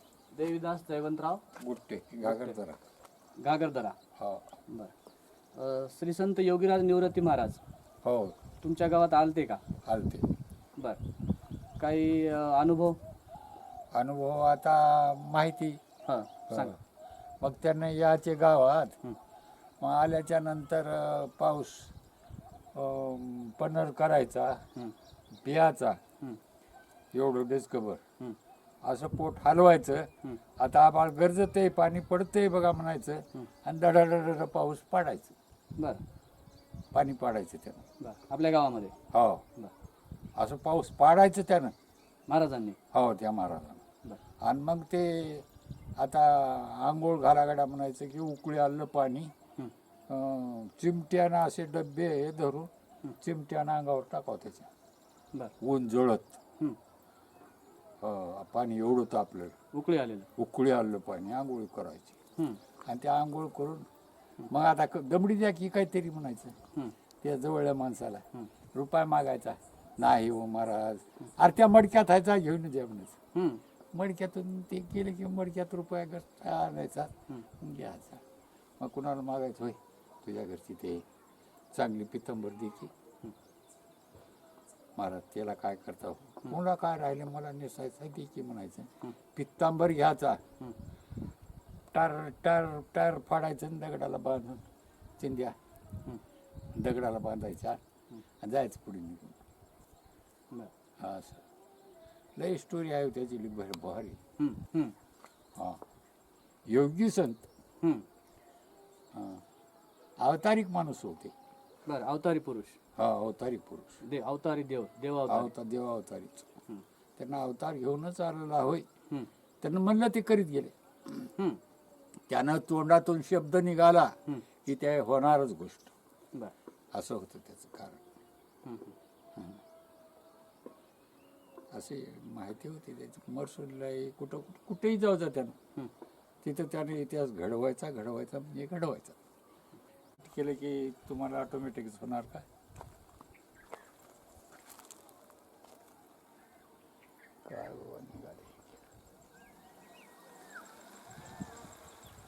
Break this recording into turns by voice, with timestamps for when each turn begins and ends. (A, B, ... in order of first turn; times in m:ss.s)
0:00.3-0:01.4 A
0:01.6-0:02.8 B
0:02.2-0:02.6 A
0:03.4-0:04.0 A
0:04.2-0:04.6 B
0:04.7-0:04.9 A
0:05.5-0:07.6 A
0:08.0-0:08.4 B
0:08.6-0:09.6 A
0:09.8-0:10.3 B
0:11.8-0:13.0 A
0:13.9-0:15.8 B
0:16.0-0:16.7 A
0:16.5-0:16.7 B
0:17.4-0:19.0 B
0:19.8-0:21.9 B
0:22.7-0:24.7 B
0:25.4-0:26.0 B
0:27.1-0:28.0 B
0:28.8-0:35.3 B
0:35.8-0:36.0 A
0:36.9-0:37.8 B
0:38.0-0:39.0 A
0:39.1-0:39.4 B
0:40.4-0:41.7 B
0:42.3-0:42.8 A
0:42.9-0:43.8 B
0:44.4-0:45.4 B
0:46.0-0:49.3 B
0:50.1-0:54.7 B
0:55.6-0:56.4 B
0:58.0-0:59.6 B
0:59.7-1:00.3 A
1:00.4-1:02.2 B
1:02.8-1:03.9 B
1:04.5-1:06.6 B
1:07.2-1:13.2 B
1:13.3-1:13.6 A
1:13.9-1:18.2 B
1:18.8-1:21.0 B
1:21.7-1:22.9 B
1:25.0-1:30.4 B
1:31.9-1:34.6 B
1:35.2-1:35.5 B
1:36.7-1:37.8 B
1:38.4-1:39.4 B
1:41.0-1:41.4 B
1:42.4-1:44.2 B
1:44.4-1:44.9 A
1:45.6-1:45.8 B
1:46.7-1:47.5 B
1:49.1-1:49.4 B
1:50.2-1:51.3 B
1:51.8-1:52.8 A
1:53.0-1:54.0 B
1:54.0-1:55.5 A
1:55.3-1:56.5 B
1:57.2-1:58.9 B
1:59.6-2:00.7 B
2:01.3-2:01.6 A
2:02.3-2:05.9 B
2:06.9-2:08.0 B
2:08.6-2:09.0 A
2:09.4-2:09.6 B
2:11.7-2:15.6 B
2:16.4-2:19.2 B
2:20.2-2:22.4 B
2:27.4-2:28.8 B